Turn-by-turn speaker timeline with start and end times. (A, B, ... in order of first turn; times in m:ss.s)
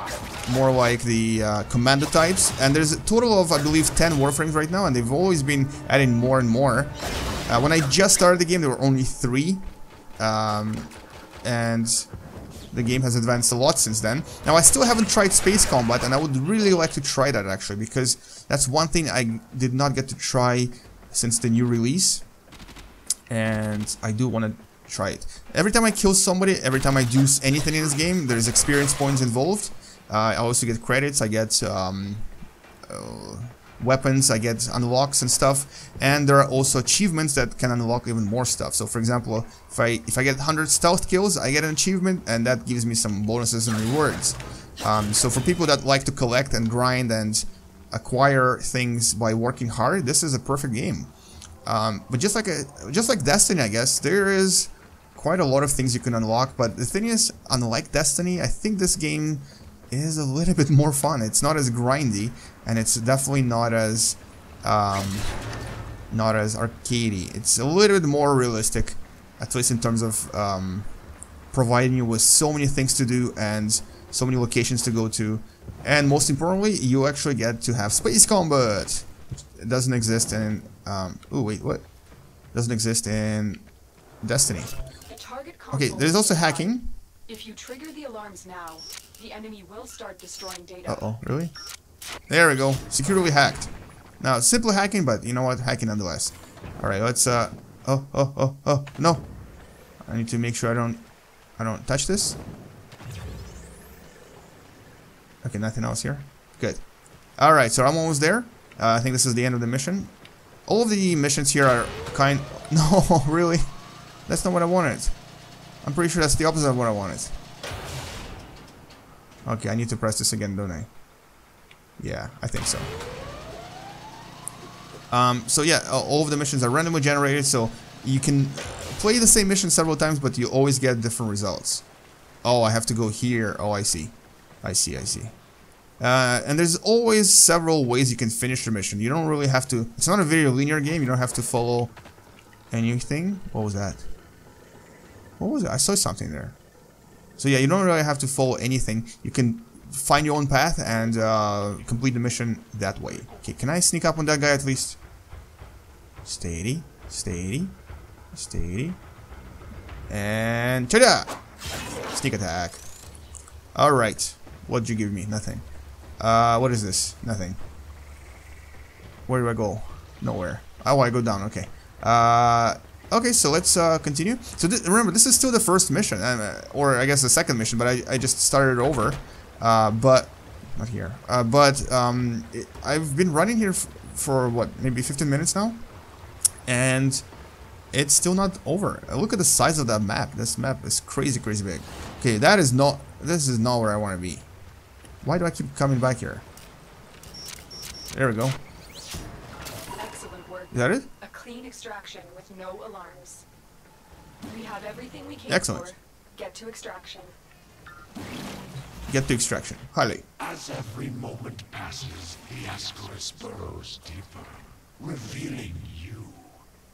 0:00.4-0:06.9 A
0:07.5-0:09.6 A
0:10.2-0:10.9 A
0:11.4-0:12.1 A
0:12.7-0:22.2 A
0:23.3-0:32.2 A
0:32.9-0:51.1 A
0:51.6-1:05.3 A
1:06.1-1:10.9 A
1:11.5-1:21.8 A
1:22.5-1:23.6 A
1:24.2-1:24.7 A
1:25.1-1:26.8 B
1:25.7-1:26.9 A
1:27.3-1:31.1 B
1:30.8-1:31.5 A
1:32.3-1:39.2 A
1:40.0-1:41.0 A
1:41.6-1:42.4 A
1:45.4-1:46.8 A
1:47.4-1:50.1 A
1:50.7-1:53.7 A
1:54.3-1:55.1 A
1:55.8-1:57.3 A
1:59.4-2:00.9 A
2:02.0-2:02.9 A
2:05.1-2:11.8 A
2:12.4-2:15.3 A
2:16.0-2:21.9 A
2:22.7-2:24.0 A
2:25.4-2:26.6 A
2:27.4-2:35.0 A
2:36.2-2:37.7 A
2:38.3-2:39.0 A
2:40.1-2:41.3 A
2:42.1-2:42.8 A
2:43.7-2:45.6 A
2:46.2-2:47.6 A
2:49.3-3:05.8 A
3:06.6-3:07.2 A
3:07.9-3:14.5 A
3:15.2-3:16.4 A
3:18.1-3:18.6 A
3:20.0-3:23.4 B
3:20.7-3:21.1 A
3:24.4-3:27.3 B
3:25.5-3:25.9 A
3:29.1-3:30.2 A
3:30.5-3:34.5 C
3:35.0-3:36.4 C